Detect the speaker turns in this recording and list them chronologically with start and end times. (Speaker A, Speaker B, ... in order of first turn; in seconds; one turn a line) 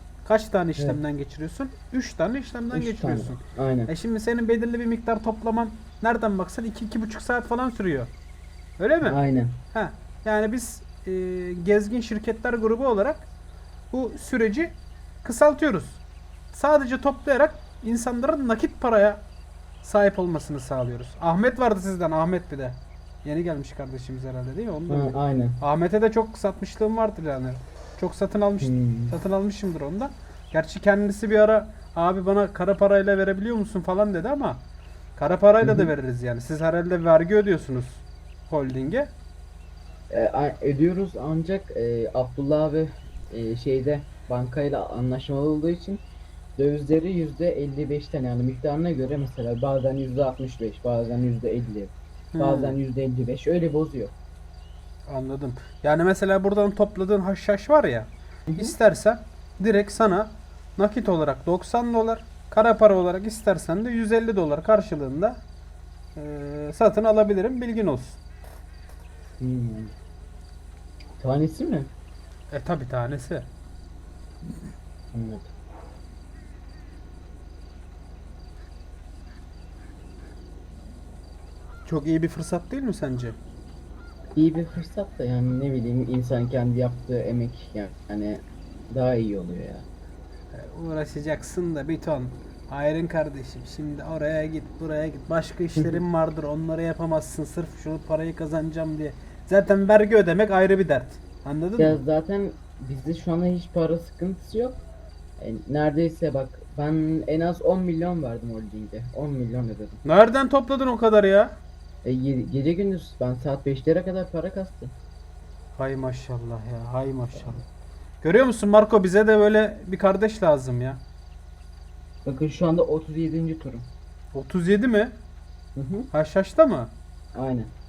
Speaker A: 0.2-8.1
Speaker B: 2.7-3.9
Speaker A: 8.8-9.2
Speaker B: 9.0-9.6
Speaker A: 9.7-13.3
Speaker A: 13.9-16.0
Speaker A: 16.5-19.2
Speaker A: 19.8-34.6
Speaker B: 24.9-25.6
Speaker B: 28.6-29.2
Speaker A: 35.2-39.1
Speaker B: 35.6-35.9
Speaker B: 40.1-46.0
Speaker B: 46.6-54.1
Speaker A: 52.3-52.8
Speaker A: 55.1-65.4
Speaker B: 58.5-58.8
Speaker A: 66.2-68.2
Speaker B: 69.4-69.9
Speaker B: 71.2-71.9
Speaker A: 72.5-73.5
Speaker B: 75.1-75.5
Speaker A: 81.9-83.4
Speaker B: 84.3-89.9
Speaker A: 90.5-102.0
Speaker B: 95.8-96.0
Speaker B: 101.8-104.8
Speaker B: 105.4-110.0
Speaker A: 110.0-111.6
Speaker B: 112.0-114.9
Speaker A: 115.8-117.6
Speaker A: 118.2-121.0
Speaker B: 122.2-123.9
Speaker A: 124.3-125.1
Speaker B: 125.8-126.1
Speaker A: 126.1-126.9
Speaker B: 127.3-127.7